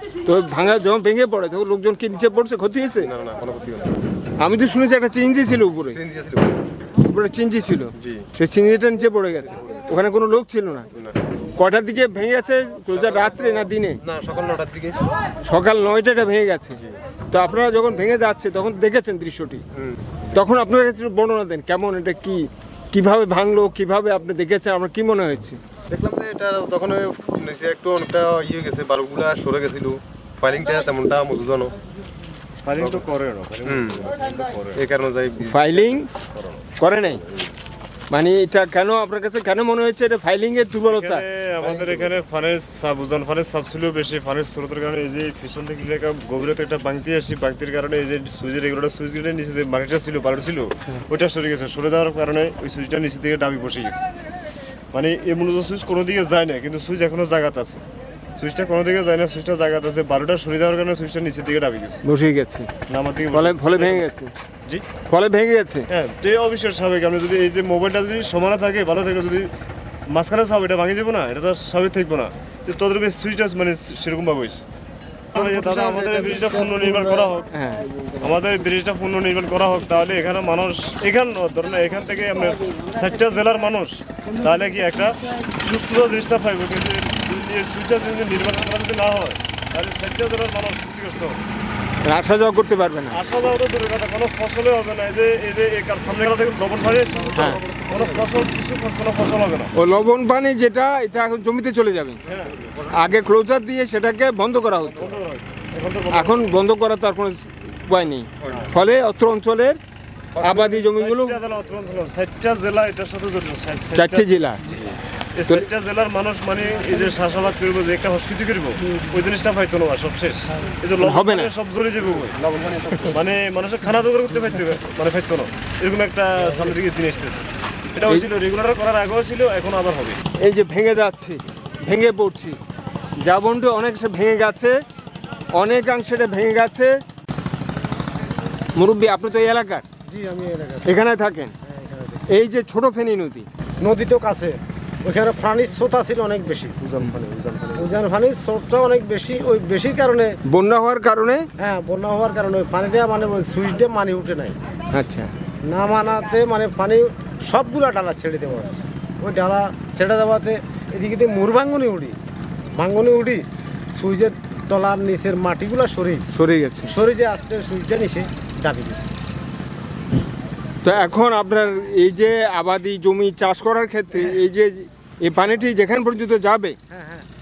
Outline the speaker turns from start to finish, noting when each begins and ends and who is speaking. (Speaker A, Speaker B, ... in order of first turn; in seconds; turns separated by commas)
Speaker A: 0.2-3.1, Speaker B: 3.0-3.9, Speaker A: 4.4-6.0, Speaker B: 5.9-6.6, Speaker A: 7.0-10.9, Speaker B: 8.0-8.3, Speaker A: 11.6-14.0, Speaker B: 14.0-15.0, Speaker A: 15.4-16.8, Speaker A: 17.3-19.6, Speaker A: 20.3-25.6, Speaker B: 25.9-31.7, Speaker C: 32.6-34.8, Speaker B: 33.7-34.0, Speaker B: 34.8-35.9, Speaker A: 35.5-36.1, Speaker A: 36.8-37.2, Speaker A: 38.1-41.2, Speaker C: 40.9-54.0, Speaker B: 41.6-42.1, Speaker C: 54.9-57.8, Speaker C: 58.4-62.0, Speaker A: 62.0-62.7, Speaker C: 62.9-64.1, Speaker A: 63.3-64.3, Speaker A: 65.1-65.9, Speaker C: 65.9-69.5, Speaker C: 70.1-74.6, Speaker C: 75.3-77.5, Speaker A: 77.5-77.8, Speaker C: 78.2-91.4, Speaker A: 92.0-93.2, Speaker C: 93.1-99.7, Speaker A: 97.3-97.6, Speaker A: 99.8-102.2, Speaker C: 102.3-102.5, Speaker A: 102.9-105.2, Speaker C: 104.9-106.5, Speaker A: 106.1-109.8, Speaker C: 110.4-122.4, Speaker A: 110.4-111.4, Speaker A: 113.9-114.6, Speaker A: 121.0-121.5, Speaker B: 122.5-123.1, Speaker C: 123.1-130.2, Speaker A: 130.4-132.6, Speaker A: 133.2-134.8, Speaker A: 135.5-136.9, Speaker A: 138.8-139.8, Speaker D: 140.1-141.0, Speaker A: 140.8-141.5, Speaker D: 141.6-142.3, Speaker A: 142.3-143.5, Speaker D: 143.8-146.8, Speaker C: 146.8-147.9, Speaker D: 147.8-150.4, Speaker A: 150.5-151.5, Speaker D: 151.6-154.6, Speaker A: 154.9-155.3, Speaker D: 155.7-162.2, Speaker D: 162.8-163.4, Speaker D: 163.9-166.3, Speaker A: 166.3-166.9, Speaker D: 166.9-169.1, Speaker A: 170.8-176.8, Speaker D: 176.9-177.3